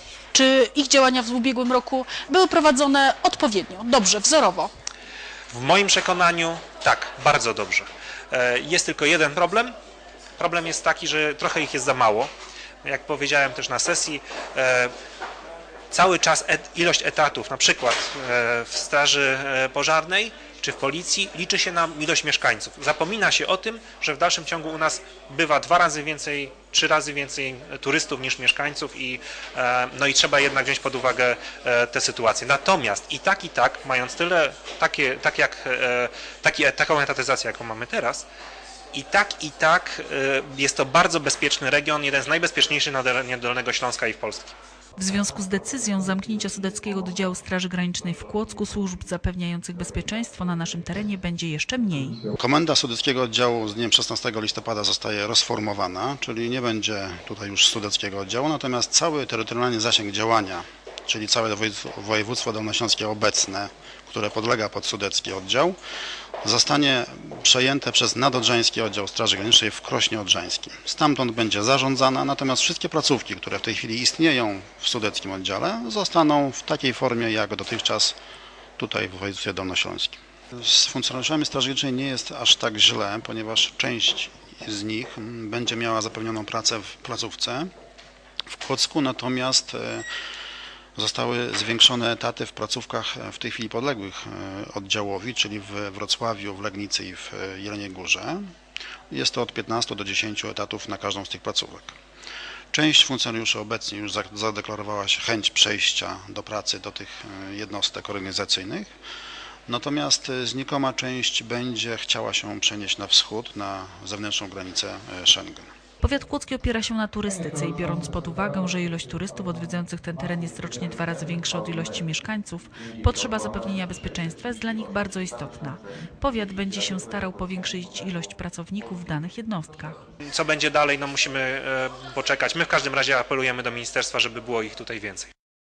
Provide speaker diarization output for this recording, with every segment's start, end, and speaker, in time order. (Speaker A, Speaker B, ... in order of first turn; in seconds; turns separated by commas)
Speaker A: 0.3-4.7, Speaker B: 5.5-9.7, Speaker B: 10.4-12.3, Speaker B: 12.8-14.9, Speaker B: 15.9-38.3, Speaker B: 38.9-44.5, Speaker C: 45.0-52.2, Speaker D: 52.4-65.8, Speaker D: 66.4-78.2, Speaker D: 78.8-87.7, Speaker D: 88.4-90.1, Speaker D: 90.9-98.4, Speaker D: 99.1-102.0, Speaker D: 102.7-108.9, Speaker D: 109.7-115.7, Speaker C: 116.0-130.0, Speaker B: 130.2-135.3